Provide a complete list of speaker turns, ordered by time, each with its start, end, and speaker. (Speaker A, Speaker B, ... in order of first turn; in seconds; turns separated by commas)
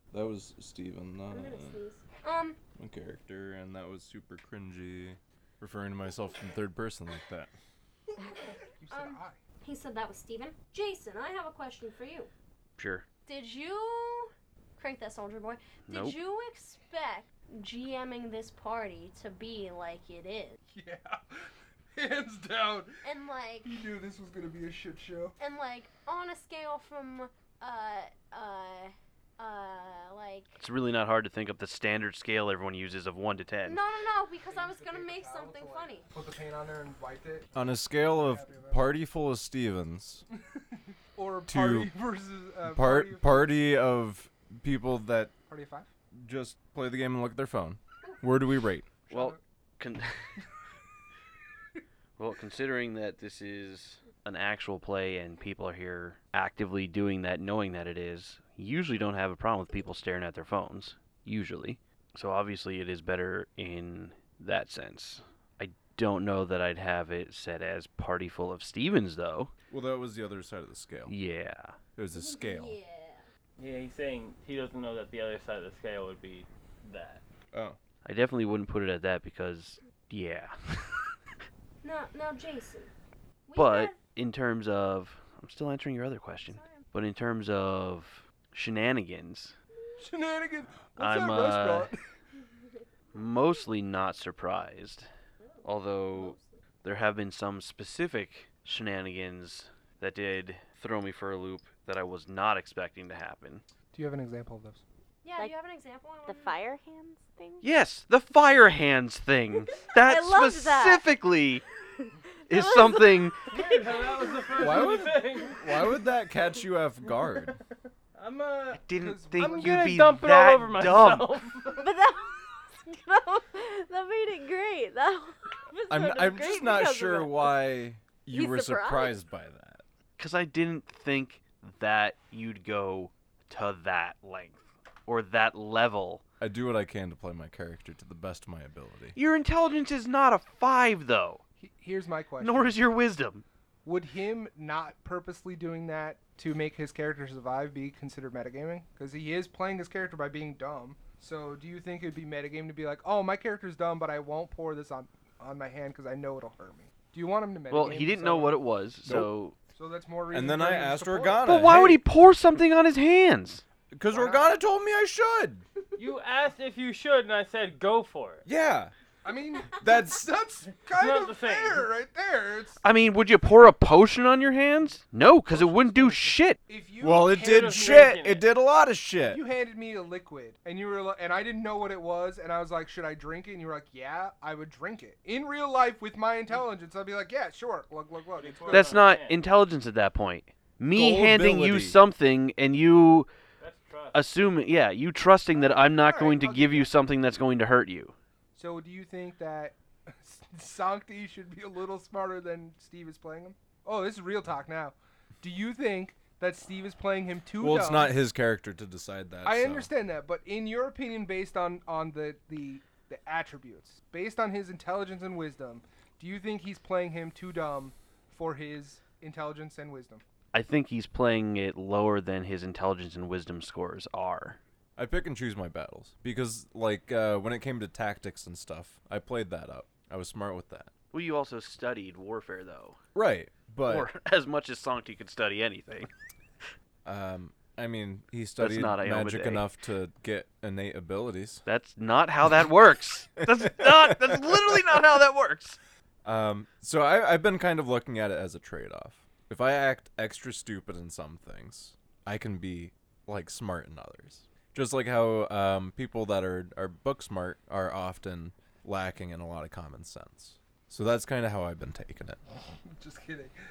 Speaker A: 0.1-1.8, Speaker B: 1.3-2.6, Speaker A: 2.8-7.5, Speaker C: 8.8-9.4, Speaker B: 8.9-12.3, Speaker D: 12.8-13.1, Speaker B: 13.2-20.6, Speaker D: 15.9-16.2, Speaker C: 20.7-23.0, Speaker B: 23.0-23.7, Speaker C: 23.6-25.4, Speaker B: 25.4-30.6, Speaker D: 30.6-33.8, Speaker B: 33.6-36.1, Speaker C: 34.4-38.9, Speaker A: 37.5-40.2, Speaker C: 40.4-43.6, Speaker A: 41.5-41.9, Speaker A: 42.6-45.3, Speaker C: 45.5-45.9, Speaker A: 46.2-49.0, Speaker C: 49.1-49.4, Speaker D: 49.1-50.4, Speaker D: 52.2-69.5, Speaker A: 69.7-71.1, Speaker D: 71.1-71.8, Speaker A: 72.0-72.8, Speaker B: 72.1-73.3, Speaker E: 73.6-77.2, Speaker A: 77.5-77.8, Speaker D: 78.0-81.0, Speaker B: 81.8-82.9, Speaker B: 83.5-84.0, Speaker D: 83.5-89.5, Speaker B: 86.5-86.8, Speaker C: 90.0-92.0, Speaker D: 91.0-91.9, Speaker B: 92.5-92.8, Speaker D: 93.1-95.1, Speaker B: 95.4-96.6, Speaker D: 95.6-103.6, Speaker C: 103.9-104.8, Speaker B: 105.2-106.6, Speaker F: 106.2-107.6, Speaker D: 107.6-111.6, Speaker F: 109.9-111.0, Speaker F: 112.0-114.1, Speaker D: 112.5-113.4, Speaker E: 113.5-115.6, Speaker A: 114.6-117.6, Speaker E: 117.2-117.6, Speaker E: 118.1-118.8, Speaker D: 118.8-121.3, Speaker C: 118.9-119.9, Speaker E: 119.4-121.9, Speaker F: 121.8-127.5, Speaker A: 125.8-129.8, Speaker F: 128.3-129.2, Speaker D: 130.2-136.2, Speaker A: 136.4-139.2, Speaker D: 139.1-141.4, Speaker C: 141.6-142.8, Speaker D: 142.4-143.4, Speaker C: 143.8-158.6, Speaker D: 157.7-159.6, Speaker C: 159.7-161.4, Speaker A: 160.3-162.0, Speaker D: 161.4-163.6, Speaker A: 163.9-165.6, Speaker C: 164.1-164.5, Speaker E: 166.0-168.4, Speaker A: 168.4-168.9, Speaker C: 169.2-172.8, Speaker A: 169.8-170.4, Speaker E: 170.8-171.9, Speaker D: 172.8-176.6, Speaker C: 175.5-178.2, Speaker A: 177.0-179.4, Speaker E: 177.4-178.4, Speaker C: 179.3-189.0, Speaker E: 188.3-189.4, Speaker D: 188.7-193.3, Speaker A: 190.9-192.0, Speaker E: 193.6-194.2, Speaker D: 194.1-198.1, Speaker C: 195.5-196.9, Speaker C: 198.5-208.2, Speaker A: 207.6-209.9, Speaker C: 209.4-220.2, Speaker D: 220.5-224.6, Speaker A: 225.0-230.9, Speaker D: 231.1-233.0, Speaker A: 233.1-234.1, Speaker D: 233.9-236.1, Speaker A: 237.0-241.6, Speaker D: 238.6-239.7, Speaker D: 241.7-245.8, Speaker A: 243.6-244.2, Speaker A: 246.2-262.4, Speaker C: 262.7-263.5